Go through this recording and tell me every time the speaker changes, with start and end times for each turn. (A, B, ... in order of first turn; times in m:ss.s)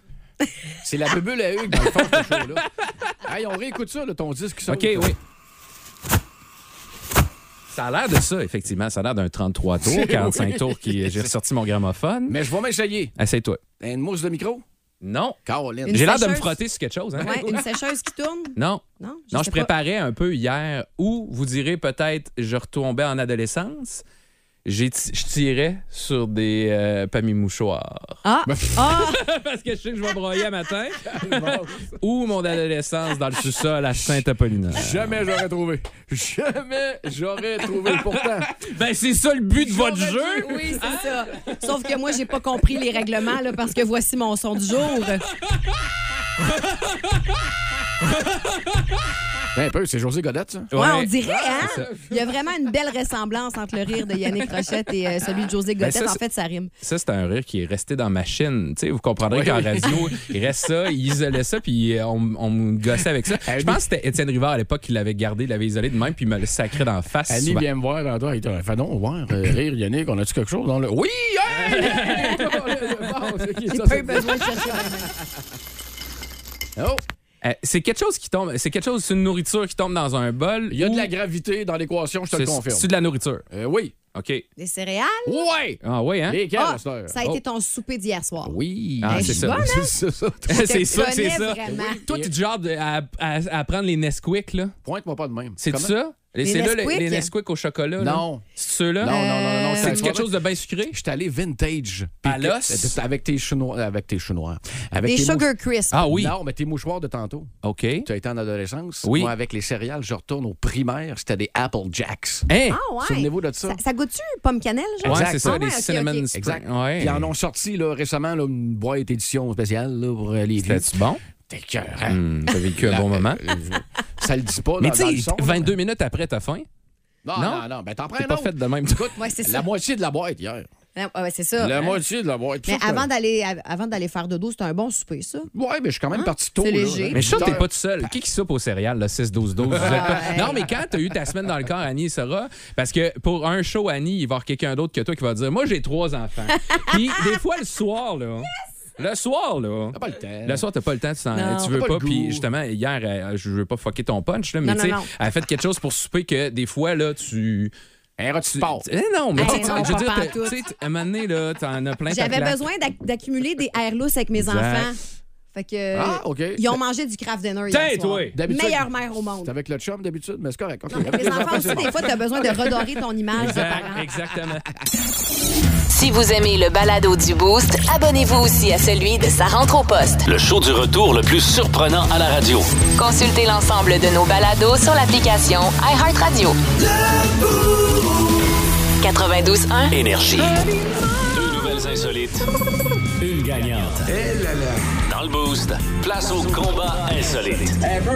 0:00.4-0:00.8 A
0:00.8-0:02.6 B
0:03.2-0:05.1 B
0:04.7-0:05.2 C
0:07.7-0:12.4 C
0:09.8-0:11.4 B
0:12.3-0:13.1 B
0:13.2-0:13.6 C
0:13.8-0:14.6 B
0:15.0-0:15.4 C
0:15.4-0:16.2 B
0:15.8-0:16.6 A
0:15.9-0:17.5 C
0:17.2-0:19.7 A
0:17.2-0:17.5 B
0:18.6-0:24.0 C
0:24.6-0:28.2 C
0:28.2-0:29.2 A
0:28.4-0:28.8 B
0:28.9-0:35.0 C
0:31.0-0:31.9 B
0:34.7-0:38.5 B
0:37.8-0:41.6 C
0:39.6-0:40.8 B
0:40.4-0:45.3 A
0:46.6-0:47.1 C
0:48.2-0:48.8 C
0:49.5-0:50.7 B
0:50.7-0:51.9 C
0:50.7-0:56.7 A
0:51.2-0:52.2 B
0:55.8-0:56.2 C
0:56.8-1:07.6 C
0:59.3-1:00.2 B
1:03.3-1:03.8 B
1:07.3-1:14.9 B
1:11.6-1:12.5 C
1:11.9-1:12.4 A
1:13.7-1:15.1 A
1:16.8-1:17.0 B
1:17.4-1:21.1 C
1:20.7-1:22.9 B
1:22.3-1:23.4 C
1:23.5-1:23.9 B
1:24.1-1:24.4 C
1:24.6-1:25.4 A
1:25.2-1:27.2 B
1:25.8-1:26.4 C
1:26.5-1:29.9 A
1:28.4-1:30.8 B
1:29.0-1:29.6 C
1:30.5-1:34.8 C
1:30.5-1:32.0 A
1:31.6-1:32.3 B
1:34.8-1:35.9 B
1:35.6-1:39.1 C
1:36.4-1:37.3 A
1:38.0-1:38.4 B
1:39.0-1:40.4 B
1:39.0-1:40.1 A
1:39.8-1:41.0 C
1:40.9-1:45.5 B
1:42.2-1:43.0 C
1:45.0-1:46.0 A
1:45.9-1:46.3 C
1:46.1-1:47.5 B
1:47.6-1:48.1 C
1:48.0-1:53.8 B
1:49.0-1:49.3 C
1:52.5-1:52.8 C
1:52.7-1:56.3 A
1:55.0-1:57.3 C
1:55.0-1:55.6 B
1:56.3-2:00.9 B
2:00.6-2:01.2 C
2:01.4-2:05.7 B
2:02.1-2:03.4 C
2:04.8-2:06.6 C
2:07.2-2:10.7 B
2:07.4-2:07.6 C
2:08.2-2:09.1 C
2:09.2-2:09.6 A
2:11.0-2:12.0 A
2:11.6-2:13.1 B
2:12.6-2:15.5 A
2:15.5-2:18.1 B
2:16.1-2:17.5 A
2:17.1-2:37.7 C
2:19.7-2:20.2 B
2:19.8-2:20.6 A
2:26.6-2:27.0 A
2:29.9-2:30.7 B
2:31.3-2:31.7 A
2:31.6-2:32.4 B
2:34.6-2:35.1 A
2:38.2-2:40.0 B
2:38.6-2:42.6 C
2:39.4-2:40.6 A
2:42.1-2:45.0 A
2:44.4-2:44.9 C
2:45.5-2:49.5 A
2:45.9-2:46.7 B
2:47.7-2:48.4 C
2:48.3-2:48.9 B
2:49.4-2:52.8 B
2:50.9-2:54.1 A
2:51.5-2:51.8 C
2:53.4-2:54.6 C
2:55.9-3:00.2 D
3:00.2-3:02.8 E
3:02.9-3:06.6 D
3:09.0-3:09.9 D
3:09.9-3:10.7 E
3:11.2-3:12.4 E
3:13.3-3:14.2 E
3:13.3-3:13.6 C
3:15.0-3:17.8 E